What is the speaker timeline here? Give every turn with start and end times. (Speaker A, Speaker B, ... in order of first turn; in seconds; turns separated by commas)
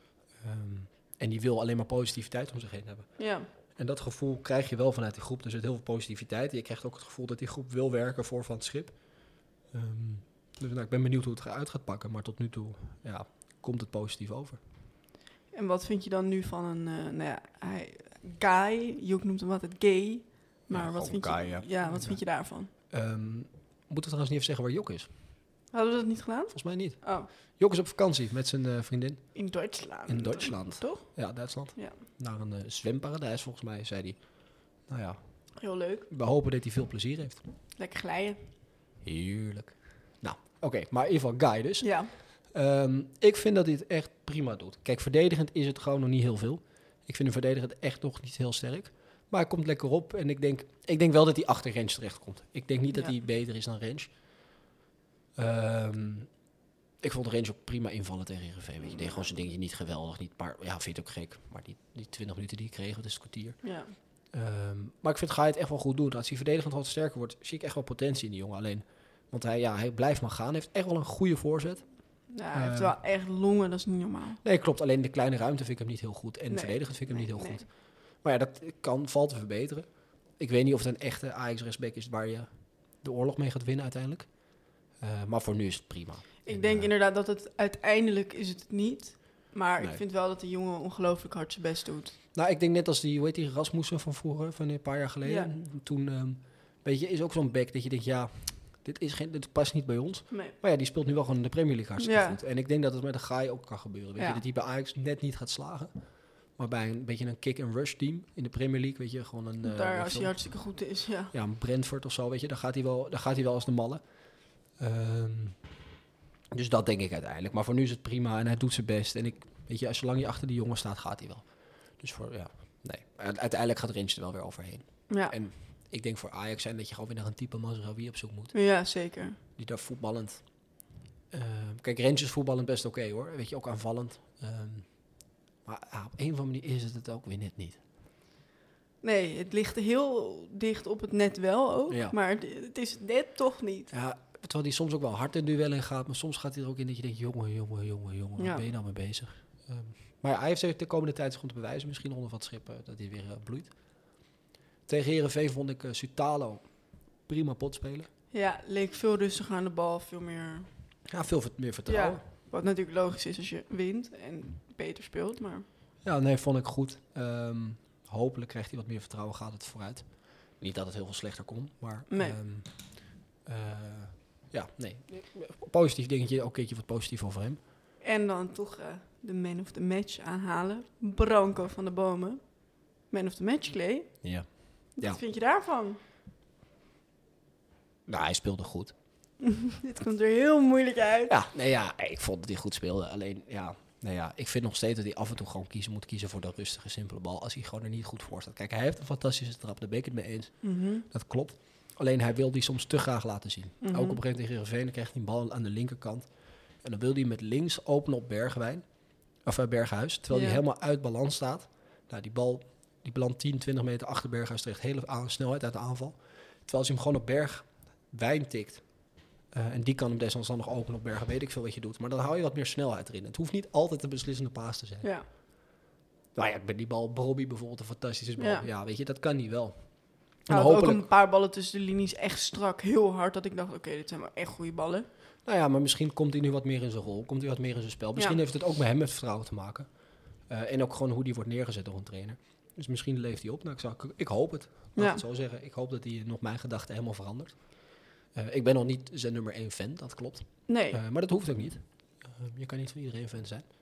Speaker A: 0.4-3.1, Speaker B: 3.2-3.5, Speaker A: 3.8-14.6, Speaker B: 15.5-22.7, Speaker A: 20.7-25.1, Speaker B: 25.7-27.3, Speaker A: 26.5-29.3, Speaker B: 29.4-31.2, Speaker A: 30.1-35.5, Speaker B: 31.7-32.0, Speaker B: 35.6-36.1, Speaker A: 36.1-37.4, Speaker B: 37.8-38.5, Speaker A: 39.0-54.1, Speaker B: 41.8-42.1, Speaker A: 55.4-56.3, Speaker A: 57.0-63.6, Speaker B: 58.9-59.3, Speaker B: 63.6-63.9, Speaker A: 64.3-71.9, Speaker B: 72.3-74.4, Speaker A: 72.5-72.9, Speaker A: 74.4-79.9, Speaker B: 76.5-77.7, Speaker A: 80.4-84.4, Speaker A: 85.0-86.9, Speaker B: 86.4-92.2, Speaker A: 92.3-105.9, Speaker B: 95.2-95.5, Speaker B: 102.0-102.4, Speaker A: 106.5-110.3, Speaker B: 109.6-111.3, Speaker A: 111.3-114.0, Speaker A: 114.7-115.6, Speaker A: 116.5-128.5, Speaker B: 125.1-125.3, Speaker B: 128.5-129.4, Speaker A: 129.6-130.4, Speaker A: 131.3-135.1, Speaker A: 135.6-137.8, Speaker B: 139.0-143.9, Speaker A: 141.9-142.2, Speaker A: 143.9-153.7, Speaker B: 148.4-148.7, Speaker A: 154.9-156.7, Speaker A: 157.3-158.1, Speaker B: 158.3-160.7, Speaker A: 161.1-162.2, Speaker B: 161.9-165.7, Speaker A: 166.0-177.6, Speaker B: 172.1-172.4, Speaker B: 178.0-182.4, Speaker B: 183.0-184.2, Speaker A: 184.2-185.2, Speaker B: 185.0-186.0, Speaker A: 188.1-188.9, Speaker B: 189.4-191.3, Speaker A: 191.3-206.3, Speaker B: 200.6-201.1, Speaker B: 203.8-204.2, Speaker A: 206.8-208.8, Speaker A: 209.4-218.9, Speaker B: 210.3-210.6, Speaker A: 219.5-225.1, Speaker A: 226.3-231.1, Speaker B: 228.4-228.7, Speaker B: 230.5-235.1, Speaker A: 235.4-239.9, Speaker A: 240.5-253.7, Speaker B: 245.0-245.2, Speaker B: 250.7-251.0